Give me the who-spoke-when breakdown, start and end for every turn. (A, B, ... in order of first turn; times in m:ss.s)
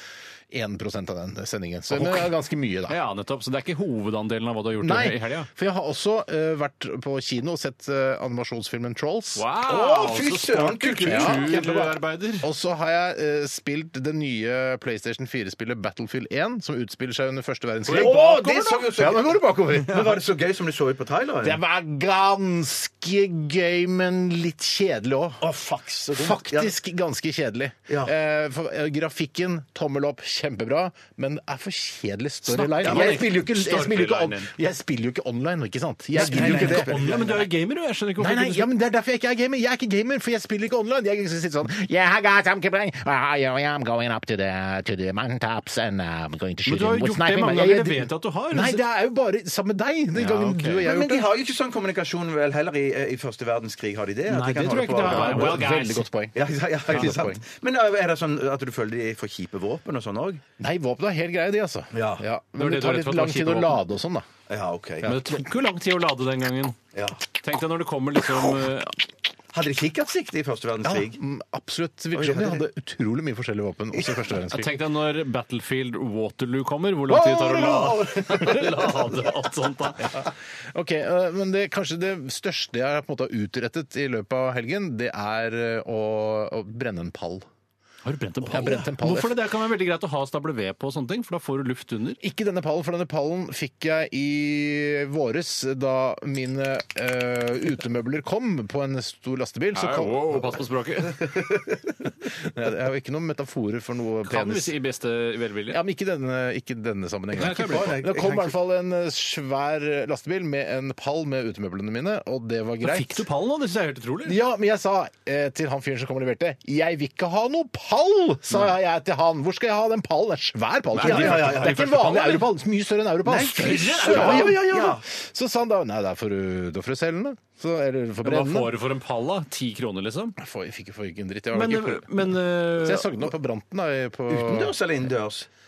0:00.5-0:03.0 A
0:01.9-0:02.2 B
0:02.9-0:05.5 B
0:04.8-0:09.4 A
0:09.4-0:12.5 B
0:09.6-0:11.9 C
0:11.0-0:11.6 A
0:12.4-0:20.2 A
0:17.8-0:18.8 B
0:17.9-0:21.6 C
0:21.4-0:25.4 A
0:25.4-0:26.7 C
0:26.1-0:37.3 A
0:27.9-0:28.1 C
0:32.5-0:34.5 B
0:32.8-0:33.3 C
0:36.1-0:37.4 C
0:36.1-0:38.7 B
0:38.2-0:51.3 A
0:46.6-0:48.8 B
0:50.1-0:50.8 B
0:50.8-0:55.6 C
0:54.3-0:56.1 B
0:54.7-0:57.4 A
0:56.3-1:00.4 C
1:00.6-1:04.3 A
1:01.9-1:02.2 C
1:02.6-1:03.8 B
1:04.5-1:05.1 C
1:05.0-1:06.8 B
1:06.9-1:07.2 C
1:07.4-1:09.0 B
1:09.5-1:11.2 C
1:10.8-1:14.8 A
1:12.1-1:12.6 C
1:14.5-1:20.1 B
1:17.1-1:19.3 C
1:20.0-1:27.5 A
1:28.0-1:32.2 B
1:28.5-1:29.4 A
1:32.2-1:40.6 A
1:39.7-1:41.4 B
1:42.4-1:44.7 A
1:44.2-1:45.8 B
1:45.7-1:53.2 A
1:47.4-1:48.0 B
1:47.4-1:48.5 C
1:52.8-1:54.4 B
1:54.2-2:08.8 A
2:00.9-2:02.4 B
2:01.0-2:02.2 C
2:03.2-2:05.0 C
2:03.5-2:04.6 B
2:08.2-2:10.4 B
2:10.4-2:14.8 A
2:11.5-2:13.1 B
2:14.3-2:15.5 C